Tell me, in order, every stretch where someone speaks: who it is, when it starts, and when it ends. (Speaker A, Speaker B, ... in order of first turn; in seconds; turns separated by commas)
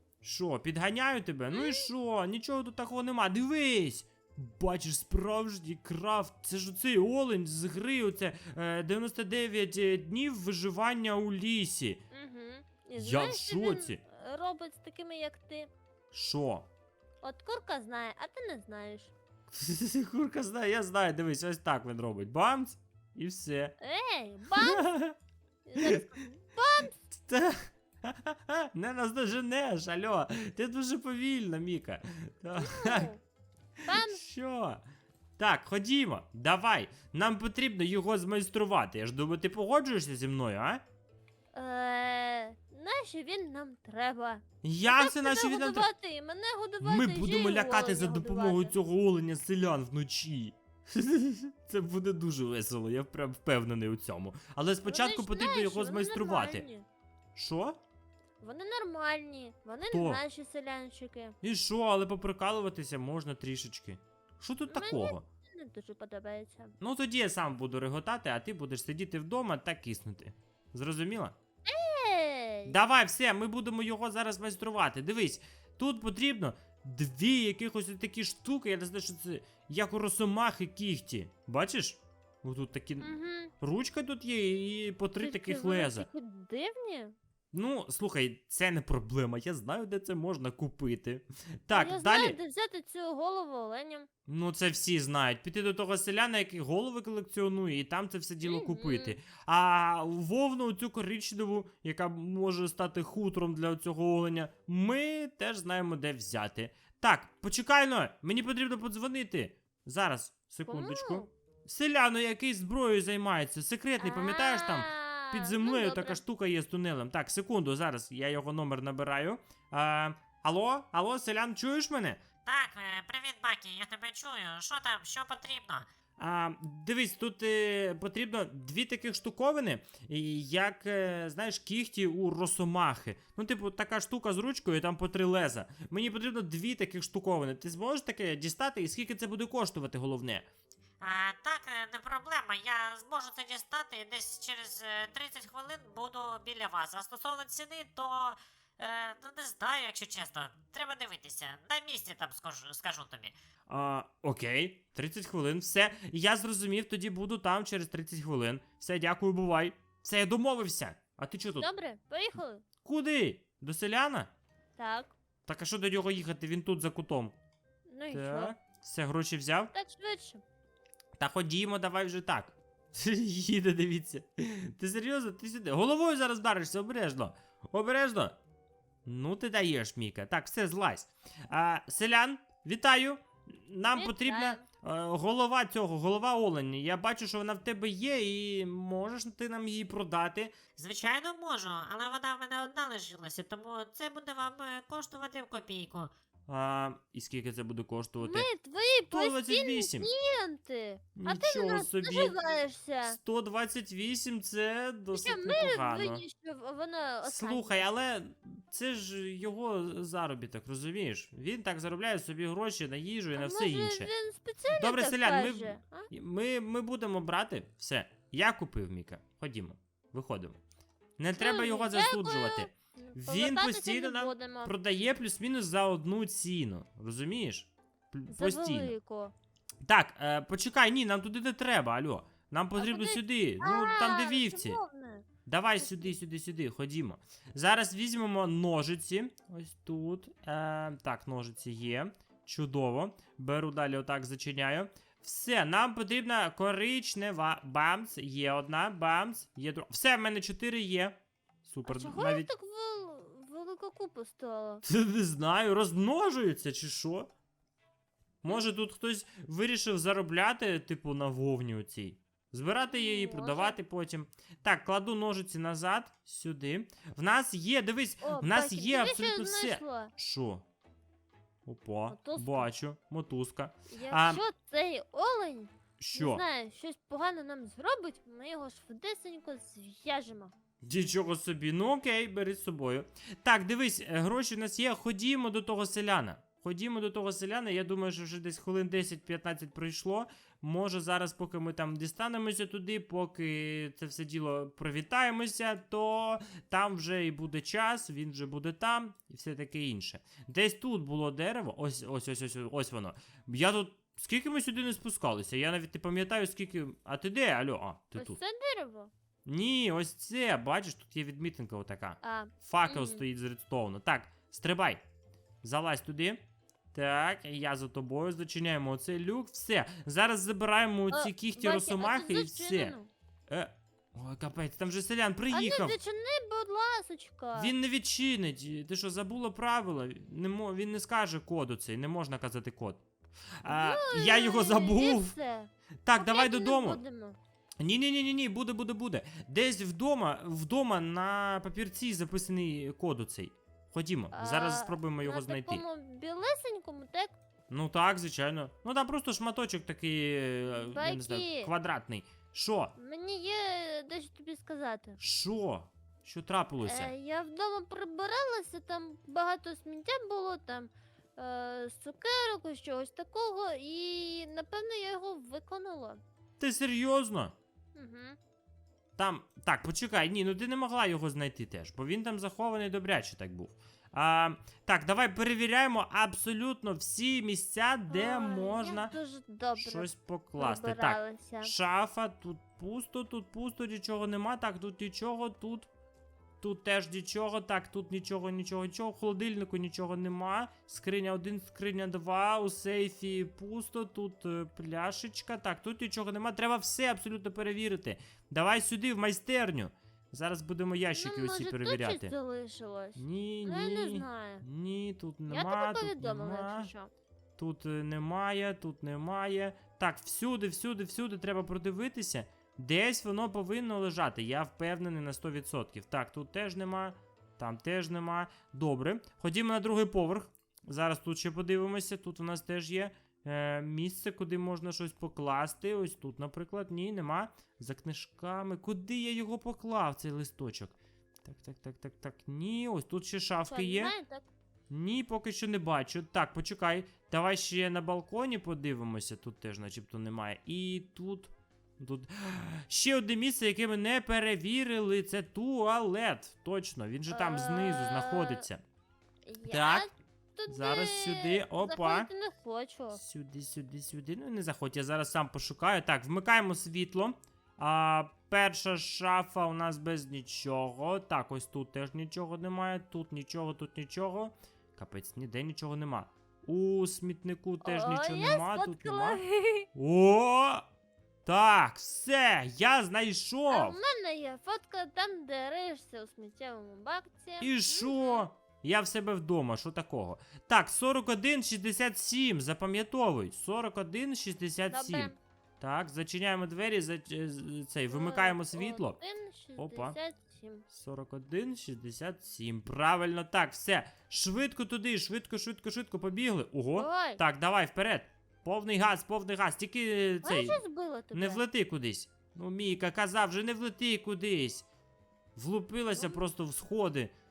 Speaker A: 0.2-12.0, Speaker B: 1.5-1.9, Speaker B: 12.1-15.7, Speaker A: 12.9-14.0, Speaker A: 16.1-16.7, Speaker B: 17.2-19.1, Speaker A: 19.5-23.7, Speaker B: 23.8-24.9, Speaker A: 24.5-25.2, Speaker B: 25.6-27.0, Speaker A: 25.8-26.1, Speaker A: 27.1-33.1, Speaker B: 32.6-33.2, Speaker B: 33.8-34.2, Speaker A: 33.9-34.8, Speaker A: 35.4-40.8, Speaker B: 41.5-48.7, Speaker A: 44.6-45.9, Speaker A: 46.8-56.7, Speaker B: 54.8-56.9, Speaker A: 57.3-57.8, Speaker B: 58.4-61.4, Speaker A: 59.9-60.2, Speaker A: 61.4-65.2, Speaker B: 64.7-66.8, Speaker A: 66.8-71.3, Speaker B: 71.7-72.7, Speaker A: 72.7-86.1, Speaker B: 83.0-83.5, Speaker B: 85.2-87.2, Speaker A: 87.5-92.4, Speaker B: 91.7-94.1, Speaker A: 94.2-122.2, Speaker B: 98.4-99.2, Speaker B: 110.7-111.3, Speaker B: 114.0-116.2, Speaker C: 122.5-125.9, Speaker A: 126.2-140.5, Speaker C: 141.0-153.3, Speaker A: 153.7-161.7, Speaker B: 161.4-162.6, Speaker A: 162.8-164.3, Speaker B: 164.8-165.1, Speaker A: 165.4-167.3, Speaker B: 167.9-168.5, Speaker A: 168.1-169.7, Speaker B: 169.7-170.4, Speaker A: 171.2-178.4, Speaker A: 179.0-190.5, Speaker B: 183.9-184.6, Speaker C: 190.8-196.1, Speaker A: 196.5-198.5, Speaker B: 198.2-203.2, Speaker A: 199.1-200.1, Speaker A: 201.1-202.3, Speaker A: 203.0-206.2, Speaker B: 205.1-207.9, Speaker A: 207.2-214.1, Speaker B: 213.3-216.1, Speaker A: 214.7-220.6, Speaker A: 221.2-228.9, Speaker B: 221.3-224.7, Speaker B: 228.3-229.3, Speaker A: 229.8-234.8, Speaker B: 232.8-235.3, Speaker A: 235.4-252.5, Speaker B: 235.8-236.1, Speaker B: 251.8-254.8, Speaker A: 254.8-257.3, Speaker A: 258.4-270.6, Speaker B: 262.8-263.8, Speaker B: 268.2-270.1, Speaker A: 271.6-274.4, Speaker B: 272.1-272.7, Speaker B: 273.9-280.5, Speaker A: 276.0-276.4, Speaker A: 280.8-308.4, Speaker B: 308.1-309.1, Speaker A: 309.4-315.0, Speaker B: 312.2-313.2, Speaker A: 315.6-316.4, Speaker A: 316.9-322.9, Speaker B: 321.1-323.1, Speaker A: 323.5-326.0, Speaker B: 325.5-327.7, Speaker A: 327.5-333.0, Speaker A: 333.6-335.4, Speaker B: 333.6-337.4, Speaker A: 336.0-337.0, Speaker A: 337.8-345.8, Speaker B: 344.3-347.3, Speaker A: 347.7-352.9, Speaker B: 350.7-351.7, Speaker B: 353.0-355.2, Speaker A: 355.2-357.1, Speaker B: 356.8-366.2, Speaker A: 366.6-367.5, Speaker B: 367.9-368.4, Speaker A: 369.2-379.1, Speaker B: 378.1-381.7, Speaker A: 379.8-385.9, Speaker A: 386.6-402.3, Speaker B: 401.1-404.6, Speaker A: 403.1-406.9, Speaker B: 405.5-407.1, Speaker A: 407.6-434.1, Speaker B: 433.7-434.5, Speaker A: 434.9-448.8, Speaker B: 447.3-448.6, Speaker B: 449.4-453.2, Speaker A: 449.6-450.1, Speaker A: 450.7-452.3, Speaker A: 453.1-469.4, Speaker B: 467.8-469.9, Speaker A: 469.9-470.9, Speaker A: 471.4-474.0, Speaker B: 473.7-478.5, Speaker A: 477.6-489.2, Speaker B: 484.9-485.3, Speaker B: 488.1-490.8, Speaker A: 489.8-490.2, Speaker A: 490.9-500.8, Speaker B: 496.9-497.4, Speaker B: 500.4-501.6, Speaker A: 501.3-504.9, Speaker A: 505.6-507.3, Speaker B: 506.1-506.4